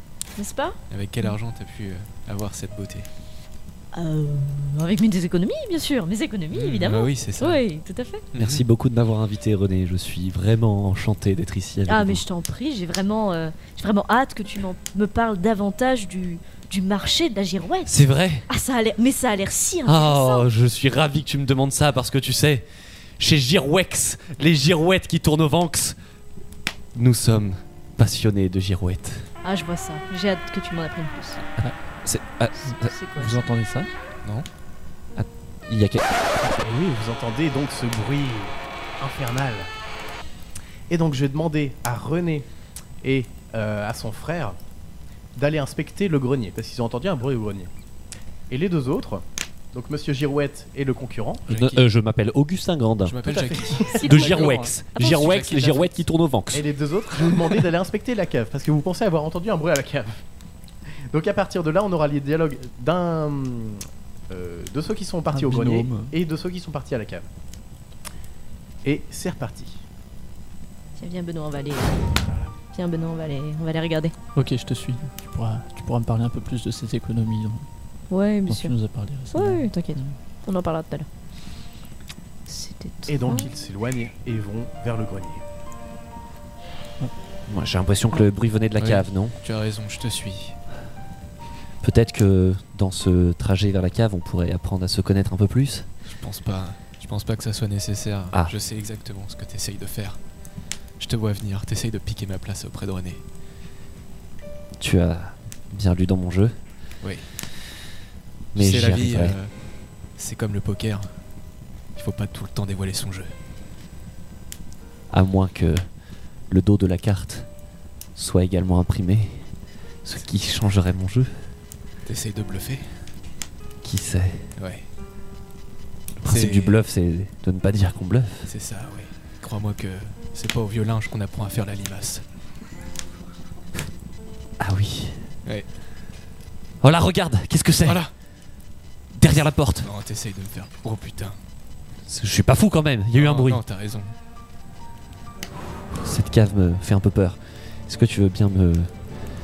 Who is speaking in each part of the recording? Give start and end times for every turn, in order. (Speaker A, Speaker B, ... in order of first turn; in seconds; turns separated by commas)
Speaker A: 0.4-1.3, Speaker B: 0.9-3.1, Speaker A: 3.9-8.3, Speaker B: 6.5-7.6, Speaker B: 8.3-8.7, Speaker C: 8.4-12.2, Speaker A: 11.9-17.9, Speaker C: 17.9-18.4, Speaker A: 18.5-20.5, Speaker C: 19.9-22.6, Speaker C: 23.2-26.0, Speaker C: 26.9-29.3, Speaker A: 29.4-31.4, Speaker C: 32.0-32.9, Speaker D: 32.7-33.9, Speaker A: 32.7-33.5, Speaker C: 35.2-36.2, Speaker E: 36.4-39.7, Speaker E: 40.9-42.5, Speaker E: 43.0-44.6, Speaker E: 45.4-47.7, Speaker E: 48.5-51.5, Speaker B: 51.5-51.9, Speaker C: 51.5-53.2, Speaker B: 53.0-54.5, Speaker E: 53.3-54.0, Speaker A: 53.9-55.4, Speaker C: 54.0-56.7, Speaker D: 54.1-54.7, Speaker B: 55.1-56.0, Speaker E: 56.5-60.2, Speaker E: 61.1-67.3, Speaker D: 65.3-66.1, Speaker E: 68.8-69.8, Speaker A: 71.0-72.1, Speaker E: 72.2-72.5, Speaker A: 72.7-74.1, Speaker D: 74.3-77.7, Speaker A: 78.1-78.8, Speaker D: 78.5-80.2, Speaker A: 79.3-81.1, Speaker A: 82.5-83.5, Speaker E: 83.1-85.4, Speaker C: 87.5-89.3, Speaker B: 88.8-90.6, Speaker C: 91.8-95.9, Speaker B: 96.1-100.2, Speaker B: 101.0-103.2, Speaker C: 104.8-106.5, Speaker B: 107.0-107.3, Speaker C: 108.5-109.4, Speaker B: 108.5-111.1, Speaker B: 112.0-113.3, Speaker C: 115.1-115.9, Speaker C: 116.5-117.5, Speaker C: 118.2-119.5, Speaker C: 120.0-121.3, Speaker B: 122.0-122.9, Speaker C: 123.8-124.5, Speaker B: 124.6-124.9, Speaker C: 126.2-128.5, Speaker B: 126.2-126.8, Speaker B: 128.5-132.2, Speaker C: 134.6-135.3, Speaker C: 136.8-138.1, Speaker B: 137.8-138.1, Speaker C: 139.2-139.9, Speaker B: 139.2-141.4, Speaker C: 142.1-143.6, Speaker B: 143.1-144.1, Speaker C: 146.0-148.9